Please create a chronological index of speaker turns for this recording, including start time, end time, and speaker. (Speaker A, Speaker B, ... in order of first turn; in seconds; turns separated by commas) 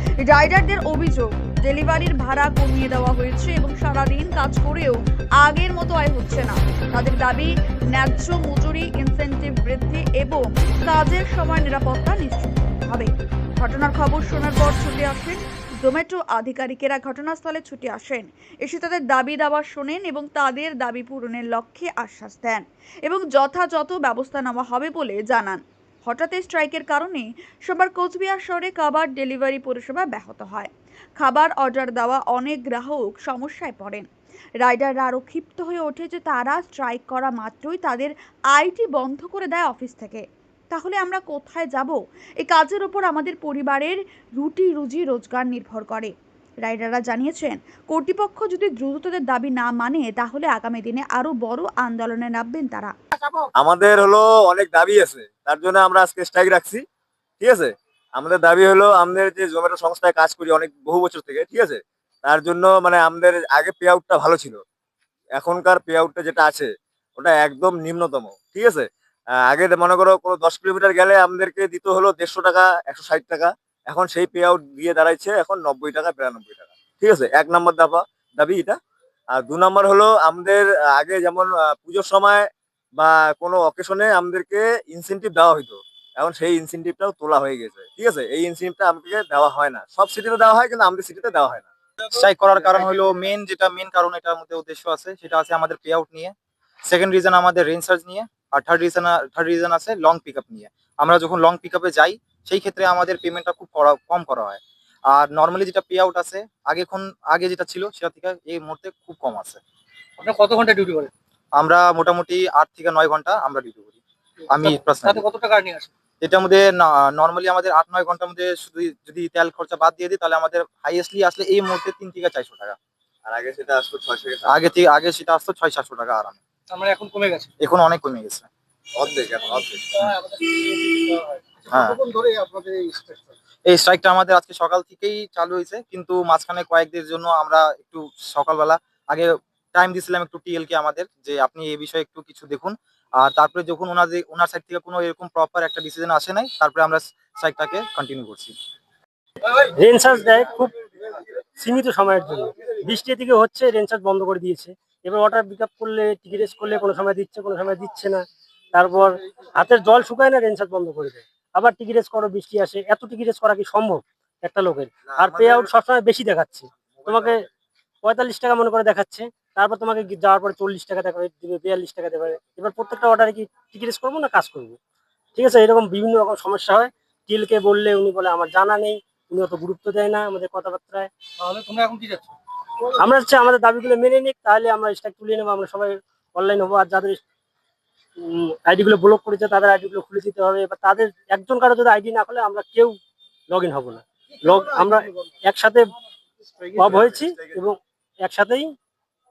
Speaker A: 0.2-34.0, Speaker A: 34.6-46.1, Speaker A: 46.6-52.9, Speaker B: 53.6-56.8, Speaker B: 57.4-64.6, Speaker B: 65.4-68.8, Speaker B: 69.5-78.8, Speaker B: 79.4-82.5, Speaker B: 83.0-91.7, Speaker C: 92.1-96.3, Speaker C: 96.9-109.6, Speaker D: 110.2-111.1, Speaker C: 111.6-114.0, Speaker C: 114.5-115.2, Speaker D: 114.5-115.9, Speaker C: 116.2-122.8, Speaker B: 123.3-124.7, Speaker C: 124.5-126.4, Speaker D: 126.7-127.5, Speaker C: 127.6-128.5, Speaker B: 129.0-130.0, Speaker D: 130.0-133.2, Speaker C: 131.7-132.0, Speaker C: 133.7-148.5, Speaker E: 149.6-150.7, Speaker E: 151.6-167.4, Speaker B: 165.2-165.7, Speaker E: 168.0-174.8, Speaker E: 175.3-181.1, Speaker D: 181.4-182.3, Speaker E: 182.9-187.2, Speaker E: 188.2-193.0, Speaker E: 193.5-195.9, Speaker E: 196.7-198.7, Speaker B: 196.9-197.6